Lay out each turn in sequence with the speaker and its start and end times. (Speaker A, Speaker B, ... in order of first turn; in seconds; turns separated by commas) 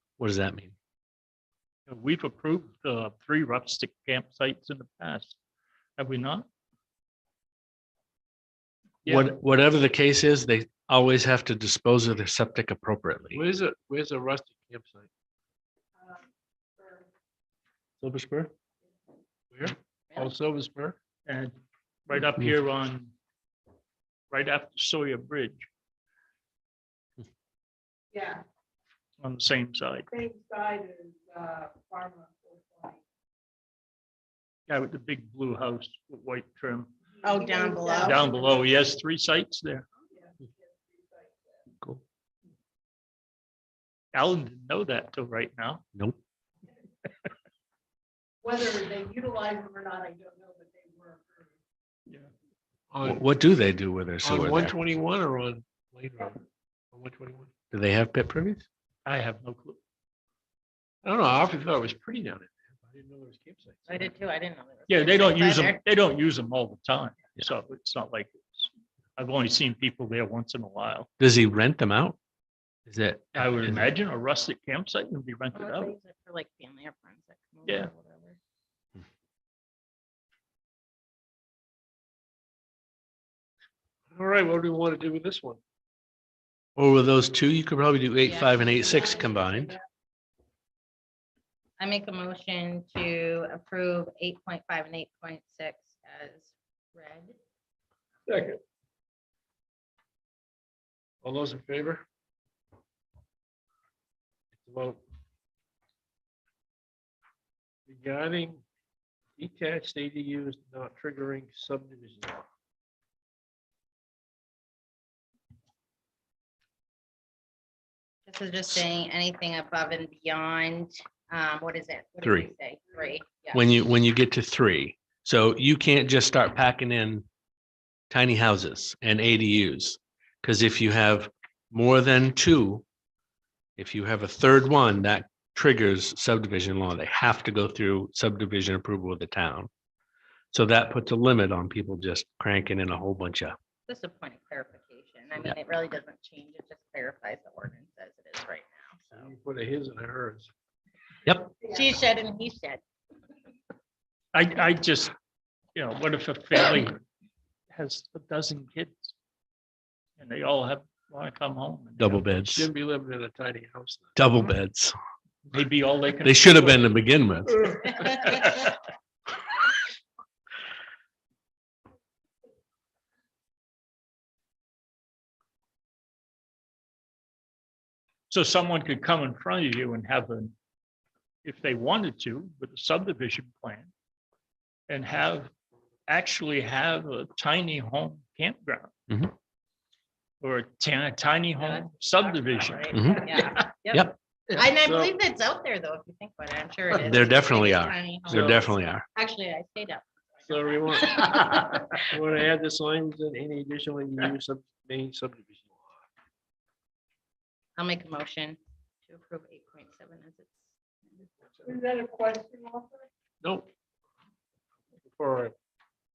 Speaker A: 0.2-0.8, Speaker B: 1.9-5.4, Speaker B: 6.0-6.5, Speaker B: 9.1-9.3, Speaker A: 9.1-13.4, Speaker C: 13.3-15.1, Speaker D: 16.8-17.1, Speaker A: 18.0-18.5, Speaker C: 19.5-21.0, Speaker B: 21.3-23.1, Speaker B: 24.3-25.7, Speaker D: 28.1-28.4, Speaker B: 29.2-30.1, Speaker D: 30.1-33.0, Speaker B: 34.7-36.9, Speaker E: 37.2-38.2, Speaker D: 37.2-38.7, Speaker B: 38.0-39.9, Speaker D: 40.1-41.6, Speaker B: 44.1-45.8, Speaker D: 48.4-51.5, Speaker C: 52.9-53.2, Speaker A: 53.0-54.8, Speaker C: 54.2-57.5, Speaker A: 57.7-58.7, Speaker B: 59.1-59.8, Speaker C: 61.0-64.1, Speaker E: 63.9-65.8, Speaker B: 64.9-71.1, Speaker A: 71.2-72.2, Speaker A: 72.9-73.9, Speaker B: 73.4-75.9, Speaker E: 75.5-78.4, Speaker B: 77.7-77.9, Speaker C: 84.1-85.6, Speaker A: 86.8-89.7, Speaker E: 88.2-89.2, Speaker D: 89.2-89.8, Speaker E: 91.8-97.3, Speaker C: 101.2-102.0, Speaker C: 104.5-105.0, Speaker C: 107.9-108.6, Speaker C: 109.4-112.5, Speaker E: 118.3-123.7, Speaker A: 122.2-122.5, Speaker A: 123.5-127.2, Speaker A: 128.1-132.8, Speaker A: 133.8-139.7, Speaker A: 140.5-143.6, Speaker E: 143.9-149.3, Speaker C: 149.1-150.5, Speaker A: 151.2-151.5, Speaker E: 151.6-152.8, Speaker B: 154.3-155.1, Speaker B: 155.8-157.0, Speaker B: 157.7-159.1, Speaker B: 160.2-162.2, Speaker A: 162.0-162.7, Speaker C: 162.4-164.2, Speaker A: 164.2-164.9, Speaker B: 165.5-166.8, Speaker A: 166.2-168.1, Speaker B: 168.1-168.7, Speaker B: 178.3-180.6, Speaker B: 181.4-183.9, Speaker B: 184.9-185.5, Speaker B: 186.1-188.9, Speaker B: 190.4-193.6, Speaker E: 191.6-202.0, Speaker A: 192.9-193.3, Speaker C: 194.8-195.2, Speaker A: 196.9-199.1, Speaker C: 198.3-198.7, Speaker C: 200.5-206.0, Speaker E: 207.8-210.7, Speaker D: 211.7-213.0, Speaker C: 213.4-213.7, Speaker C: 215.1-215.5